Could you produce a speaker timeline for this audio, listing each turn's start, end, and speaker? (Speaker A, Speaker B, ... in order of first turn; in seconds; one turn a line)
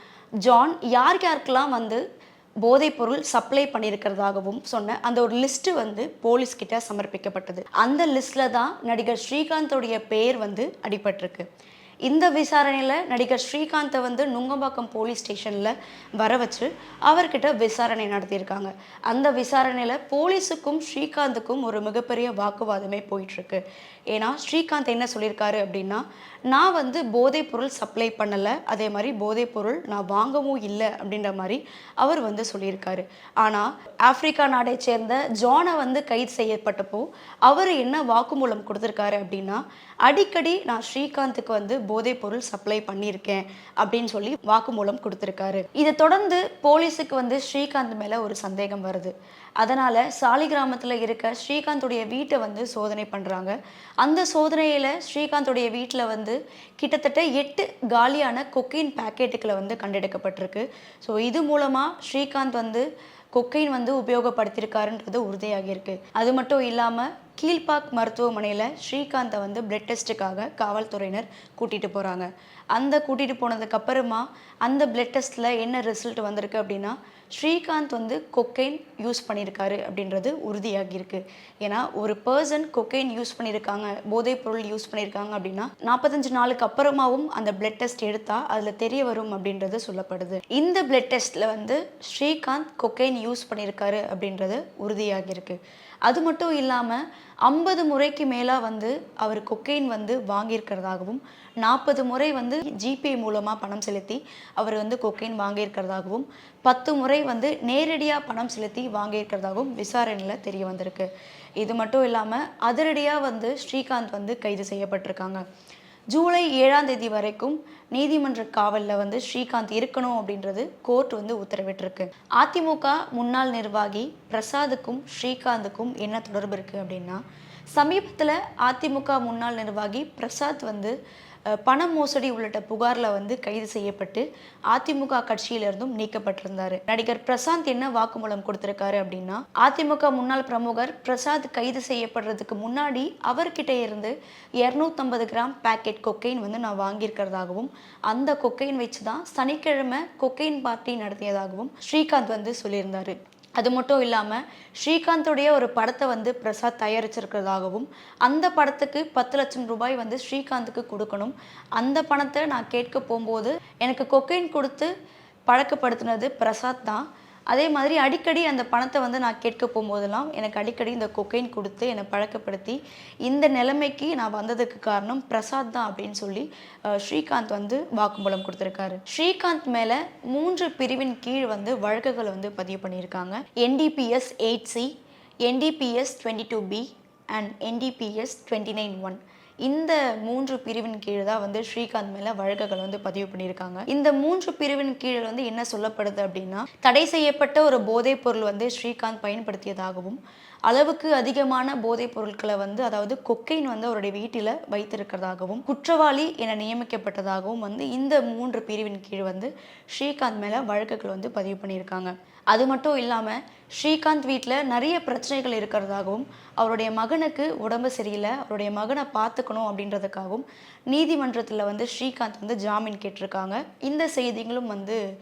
Speaker A: 0.4-2.0
Speaker A: 2.6-11.5
Speaker A: 12.1-115.4
Speaker A: 116.1-127.2
Speaker A: 127.7-130.9
Speaker A: 131.5-164.9
Speaker A: 165.5-184.9
Speaker A: 185.4-225.0